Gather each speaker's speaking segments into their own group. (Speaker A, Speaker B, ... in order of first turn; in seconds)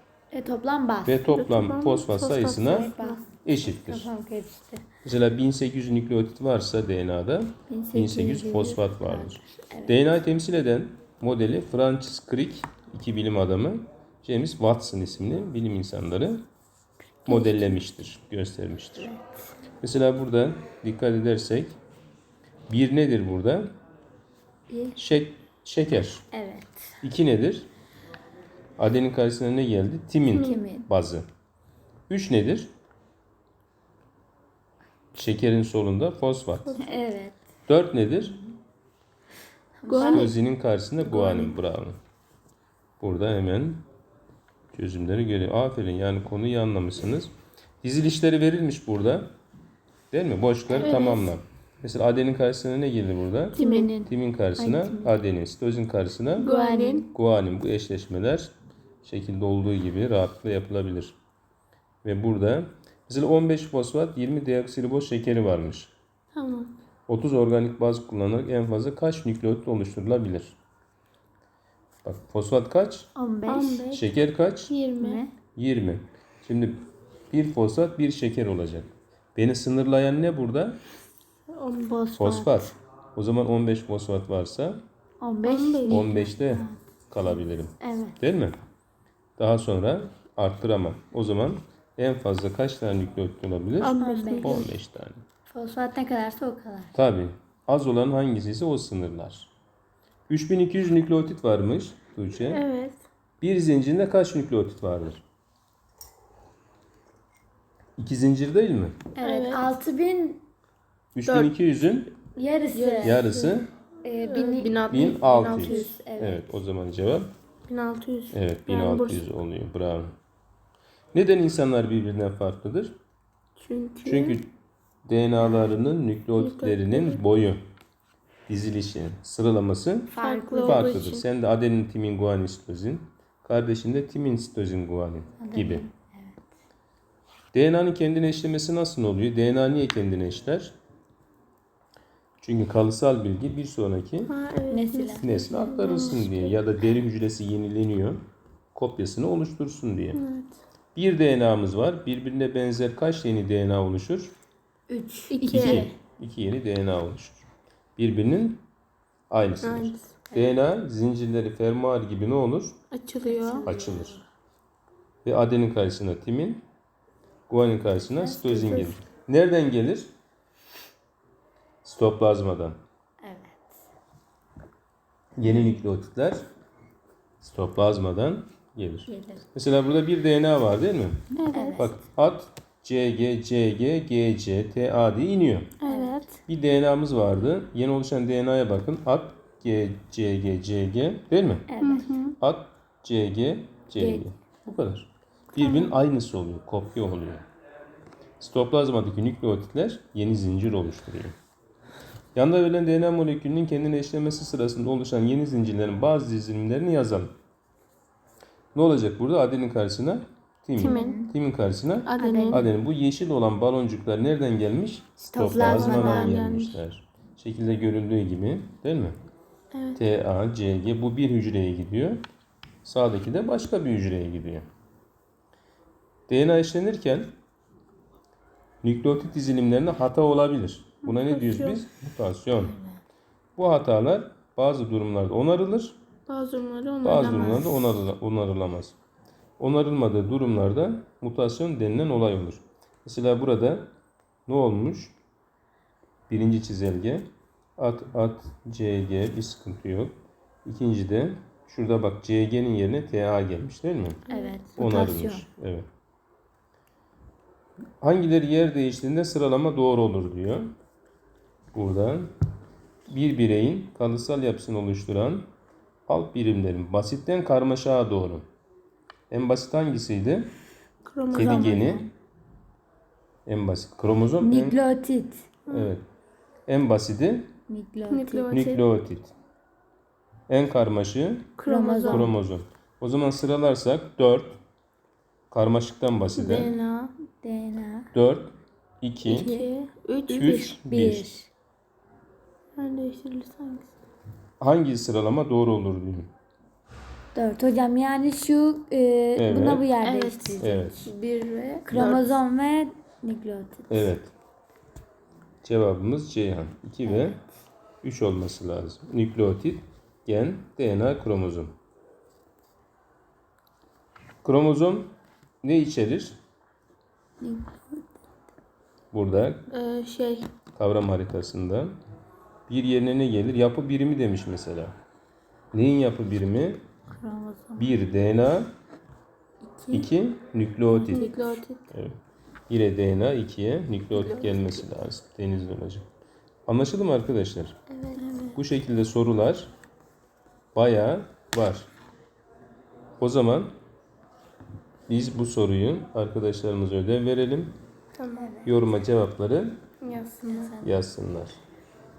Speaker A: 0.3-1.2, 2.6-4.8, 7.7-10.0, 17.2-17.8, 19.0-19.2, 24.7-25.0, 26.3-26.8, 30.4-30.9, 36.8-37.4, 39.8-40.3, 41.2-41.5, 50.7-51.2, 53.5-55.1, 56.4-57.1, 73.1-73.9, 75.0-75.3, 82.2-82.5, 85.2-88.2, 94.0-94.7, 95.5-96.9, 109.1-110.4, 112.3-113.3, 114.0-116.5, 125.5-125.7, 130.1-131.2, 135.4-136.4, 144.7-145.3, 154.9-155.9, 163.2-164.2, 168.2-168.6, 173.2-173.6, 179.1-179.5, 181.5-182.0, 185.8-186.2, 191.7-192.1, 193.9-194.2, 210.8-211.3, 212.2-212.7, 215.2-216.5, 254.3-255.4, 271.3-272.1, 274.4-275.5, 277.7-278.6, 281.6-282.4, 287.3-288.1, 289.3-289.7, 290.3-291.5, 297.3-304.1, 307.0-307.3, 317.4-317.9, 327.1-328.0, 329.6-330.1, 330.9-331.5, 338.2-338.6, 348.4-348.7, 350.4-351.0
Speaker B: 1.1-2.9, 3.4-4.1, 5.0-16.4, 17.2-19.1, 19.8-21.8, 22.7-23.7, 24.9-26.3, 27.0-27.7, 28.8-31.3, 32.1-32.7, 35.1-36.8, 37.7-38.4, 40.0-42.0, 43.0-43.8, 44.7-47.3, 47.8-49.3, 50.1-56.5, 57.1-61.2, 62.0-65.9, 67.1-70.5, 72.0-73.1, 73.9-74.7, 75.5-80.8, 82.2-84.8, 85.9-88.5, 89.4-95.2, 96.9-99.5, 100.3-102.6, 103.4-105.2, 108.0-109.0, 111.1-112.2, 113.0-113.7, 114.9-117.3, 118.3-120.1, 121.1-123.0, 124.0-124.5, 125.0-127.6, 128.5-135.8, 137.5-140.8, 142.4-144.3, 145.2-148.2, 148.7-150.2, 150.9-154.3, 155.5-157.4, 158.0-158.6, 159.3-162.8, 163.6-164.2, 165.2-166.6, 167.5-170.1, 171.8-172.8, 175.3-176.4, 177.4-185.8, 186.5-191.7, 192.4-197.4, 198.4-201.3, 202.3-207.3, 208.7-219.2, 219.9-222.2, 222.8-224.7, 226.3-227.3, 228.8-232.8, 233.6-236.0, 237.0-238.9, 239.6-243.9, 244.5-245.2, 246.3-254.2, 254.7-255.9, 258.0-260.7, 261.7-262.3, 263.1-265.5, 266.1-268.4, 269.3-270.5, 271.3-272.1, 273.4-274.8, 275.7-276.0, 276.7-277.5, 278.5-279.3, 280.5-281.5, 282.1-284.6, 285.5-286.7, 288.1-289.5, 290.3-291.4, 294.6-296.3, 299.4-299.9, 300.6-301.1, 303.9-304.3, 305.6-307.4, 308.0-311.7, 314.4-315.1, 315.6-316.4, 319.1-319.7, 320.7-321.9, 322.7-324.9, 325.7-326.8, 327.8-328.7, 329.9-331.2, 331.9-332.2, 332.7-336.1, 336.7-337.8, 338.5-339.7, 340.7-341.9, 343.2-343.7, 345.1-347.7, 348.6-349.8, 350.8-351.6
Speaker C: 1.2-3.2, 30.3-30.6, 39.9-40.3, 41.2-41.5, 50.7-51.3, 53.5-54.0, 56.4-57.1, 66.3-66.7, 73.5-74.0, 74.7-75.2, 81.5-82.6, 85.4-86.1, 93.8-94.7, 102.5-103.0, 109.2-109.7, 111.2-111.5, 112.7-113.6, 114.2-115.9, 117.7-119.2, 123.6-124.4, 126.3-127.2, 130.2-131.2, 144.3-146.6, 150.1-150.6, 155.3-155.9, 159.6-160.1, 162.9-163.7, 168.4-168.9, 181.3-181.8, 185.8-186.3, 191.8-192.3, 195.6-195.9, 210.8-211.3, 212.1-212.7, 215.5-216.8, 219.7-220.0, 231.0-231.8, 236.3-237.8, 254.3-254.6, 271.0-271.9, 275.7-275.9, 278.1-278.8, 281.6-282.3, 286.3-287.1, 289.3-290.8, 292.8-293.9, 300.0-301.1, 301.9-302.4, 319.7-320.5, 331.1-331.8, 334.1-334.8, 337.9-338.3, 348.2-348.6, 350.0-350.8